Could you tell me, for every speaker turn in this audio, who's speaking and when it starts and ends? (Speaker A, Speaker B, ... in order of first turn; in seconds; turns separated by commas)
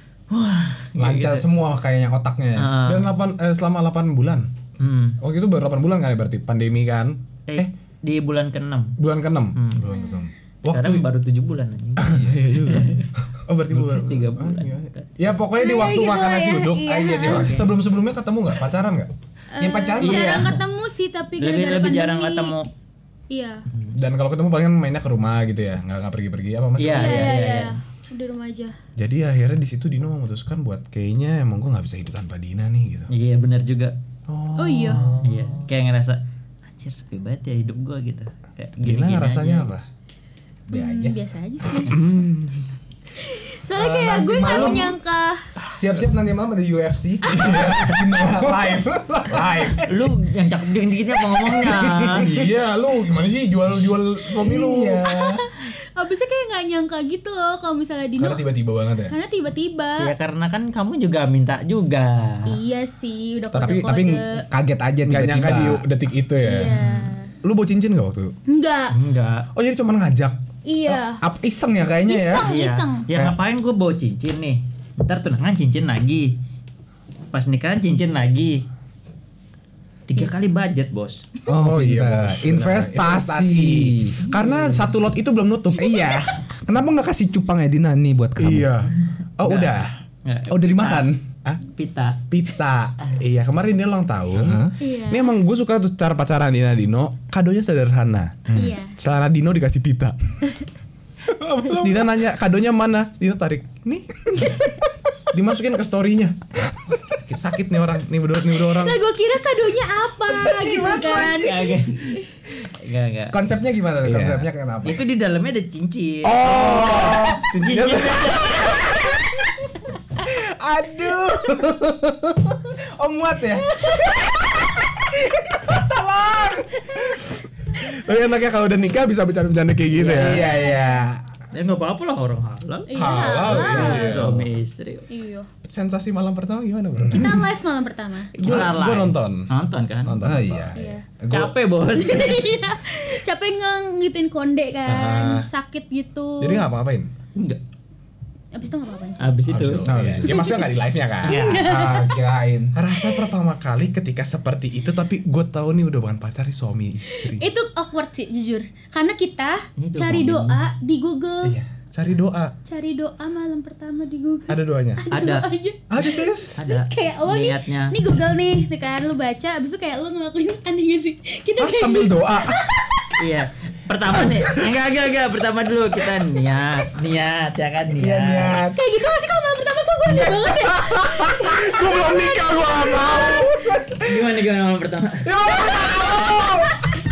Speaker A: 0.3-1.5, Speaker B: 0.9-2.7, Speaker A: 2.5-3.1, Speaker C: 2.8-4.5, Speaker A: 4.8-5.2, Speaker C: 5.2-7.7, Speaker A: 7.5-9.0, Speaker C: 9.0-9.6, Speaker A: 9.5-9.9, Speaker B: 9.8-10.3, Speaker D: 9.9-10.3, Speaker C: 10.6-11.1, Speaker A: 10.7-13.1, Speaker C: 12.0-19.1, Speaker B: 12.0-12.8, Speaker A: 13.7-15.3, Speaker D: 15.6-17.7, Speaker B: 16.9-17.7, Speaker D: 19.5-22.5, Speaker B: 19.6-20.5, Speaker A: 20.0-20.6, Speaker A: 21.4-22.7, Speaker D: 23.3-23.6, Speaker A: 23.7-23.9, Speaker C: 23.9-27.3, Speaker A: 26.8-27.8, Speaker D: 26.9-28.7, Speaker C: 29.0-33.1, Speaker A: 33.1-33.9, Speaker C: 34.3-35.6, Speaker D: 34.6-35.1, Speaker A: 35.2-39.7, Speaker C: 38.8-39.8, Speaker B: 40.7-41.2, Speaker D: 40.7-42.1, Speaker C: 41.8-42.7, Speaker D: 43.2-45.4, Speaker B: 43.8-44.9, Speaker B: 45.8-49.9, Speaker C: 47.2-49.9, Speaker D: 47.3-47.8, Speaker A: 49.8-52.3, Speaker B: 51.7-52.5, Speaker C: 52.1-55.4, Speaker B: 54.4-55.3, Speaker D: 55.0-58.4, Speaker C: 58.2-59.1, Speaker D: 59.1-60.1, Speaker A: 60.0-62.6, Speaker D: 62.5-64.5, Speaker B: 63.5-65.8, Speaker C: 65.0-66.8, Speaker D: 66.4-67.3, Speaker A: 66.6-67.1, Speaker C: 67.4-68.3, Speaker D: 68.5-68.9, Speaker A: 68.9-69.5, Speaker C: 69.5-70.4, Speaker D: 70.7-71.2, Speaker B: 70.9-72.5, Speaker D: 72.0-73.0, Speaker A: 72.4-76.3, Speaker A: 77.3-78.7, Speaker A: 80.1-81.2, Speaker B: 81.5-84.2, Speaker C: 81.5-86.1, Speaker A: 84.3-84.9, Speaker B: 85.8-88.8, Speaker C: 88.4-89.9, Speaker A: 89.4-92.2, Speaker B: 90.5-91.2, Speaker C: 92.3-100.2, Speaker B: 94.3-94.7, Speaker D: 94.8-95.3, Speaker B: 98.5-98.8, Speaker D: 98.5-99.0, Speaker C: 101.3-104.8, Speaker C: 105.3-109.0, Speaker D: 108.5-111.7, Speaker C: 110.3-111.5, Speaker A: 111.2-113.4, Speaker B: 113.3-115.0, Speaker C: 114.0-114.5, Speaker A: 114.8-118.7, Speaker C: 116.2-119.2, Speaker B: 116.5-117.2, Speaker B: 118.7-119.1, Speaker B: 120.2-126.6, Speaker C: 125.9-126.6, Speaker C: 127.8-130.6, Speaker A: 129.9-130.7, Speaker B: 130.0-131.2, Speaker A: 131.5-132.9, Speaker D: 132.9-134.3, Speaker C: 132.9-134.4, Speaker A: 133.5-135.1, Speaker B: 133.6-134.4, Speaker D: 135.1-135.5, Speaker C: 135.6-137.4, Speaker B: 137.0-137.3, Speaker D: 137.1-138.3, Speaker C: 138.3-139.5, Speaker A: 138.4-140.2, Speaker C: 140.0-140.8, Speaker B: 140.2-141.5, Speaker D: 140.7-141.0, Speaker A: 141.3-142.5, Speaker D: 141.9-146.7, Speaker C: 144.8-145.5, Speaker C: 146.4-147.1, Speaker D: 148.5-149.4, Speaker A: 149.2-149.9, Speaker C: 149.5-151.4, Speaker B: 149.8-150.3, Speaker D: 150.2-152.2, Speaker A: 151.2-151.7, Speaker B: 151.6-152.7, Speaker C: 152.7-157.5, Speaker D: 152.9-153.3, Speaker D: 157.1-161.6, Speaker A: 159.8-160.6, Speaker C: 161.4-162.5, Speaker D: 162.7-172.8, Speaker C: 164.5-165.0, Speaker A: 165.1-165.5, Speaker C: 165.9-166.5, Speaker A: 166.6-168.0, Speaker B: 171.6-172.6, Speaker C: 171.9-172.6, Speaker A: 173.2-178.6, Speaker B: 177.9-178.8, Speaker D: 178.7-183.5, Speaker C: 180.9-184.0, Speaker B: 182.7-183.9, Speaker A: 184.0-185.3, Speaker C: 185.3-186.7, Speaker B: 185.4-186.7